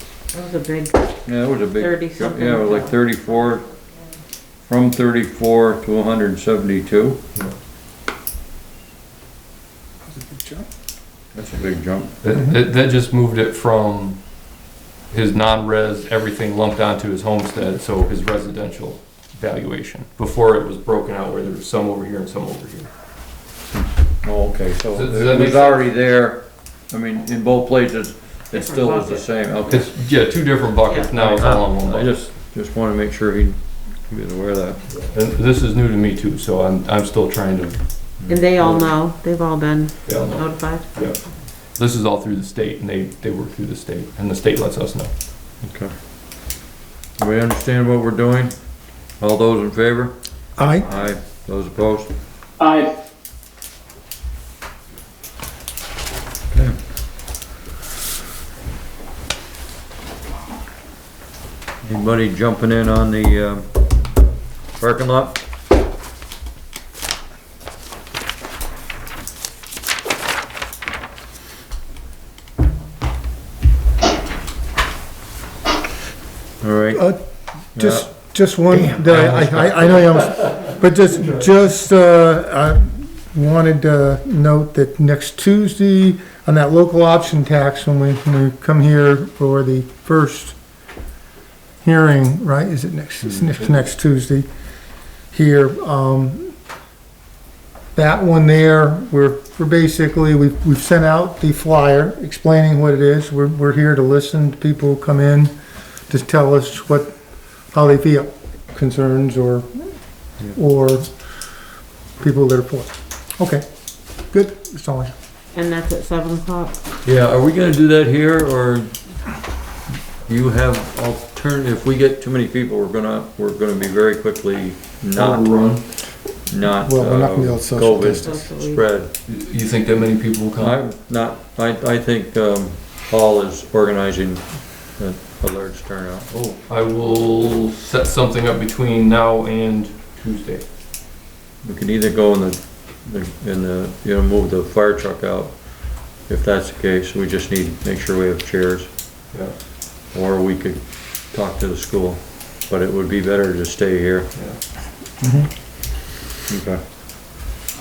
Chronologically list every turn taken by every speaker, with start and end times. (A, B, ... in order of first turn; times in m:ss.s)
0:00.3-0:03.0 A
0:01.2-0:03.6 B
0:04.6-0:07.2 B
0:10.1-0:10.7 C
0:11.3-0:12.1 B
0:12.2-0:22.9 D
0:23.7-0:29.9 B
0:24.9-0:26.0 D
0:28.5-0:29.2 A
0:29.7-0:32.1 D
0:30.8-0:31.1 A
0:31.2-0:34.8 B
0:34.9-0:38.9 D
0:38.3-0:41.1 A
0:40.0-0:45.1 D
0:45.6-0:45.9 B
0:47.2-0:52.1 B
0:50.6-0:50.9 C
1:01.8-1:03.7 B
1:04.8-1:05.4 B
1:16.6-1:17.1 B
1:16.9-1:17.2 C
1:17.7-1:30.6 C
1:17.7-1:18.1 B
1:18.8-1:19.2 B
1:31.8-1:34.5 C
1:35.3-1:36.5 C
1:37.9-1:45.5 C
1:46.1-1:47.1 C
1:47.7-1:49.7 C
1:50.5-1:51.1 C
1:52.2-1:53.6 C
1:54.3-1:55.1 C
1:55.5-1:56.7 A
1:57.0-1:58.9 B
2:00.2-2:05.5 B
2:05.1-2:05.8 D
2:06.4-2:09.1 B
2:06.8-2:08.3 C
2:08.2-2:08.9 A
2:09.2-2:10.8 D
2:10.6-2:16.6 B
2:16.6-2:20.6 D
2:21.6-2:28.9 B
2:30.1-2:34.3 B
2:35.2-2:35.5 C
2:36.5-2:36.8 B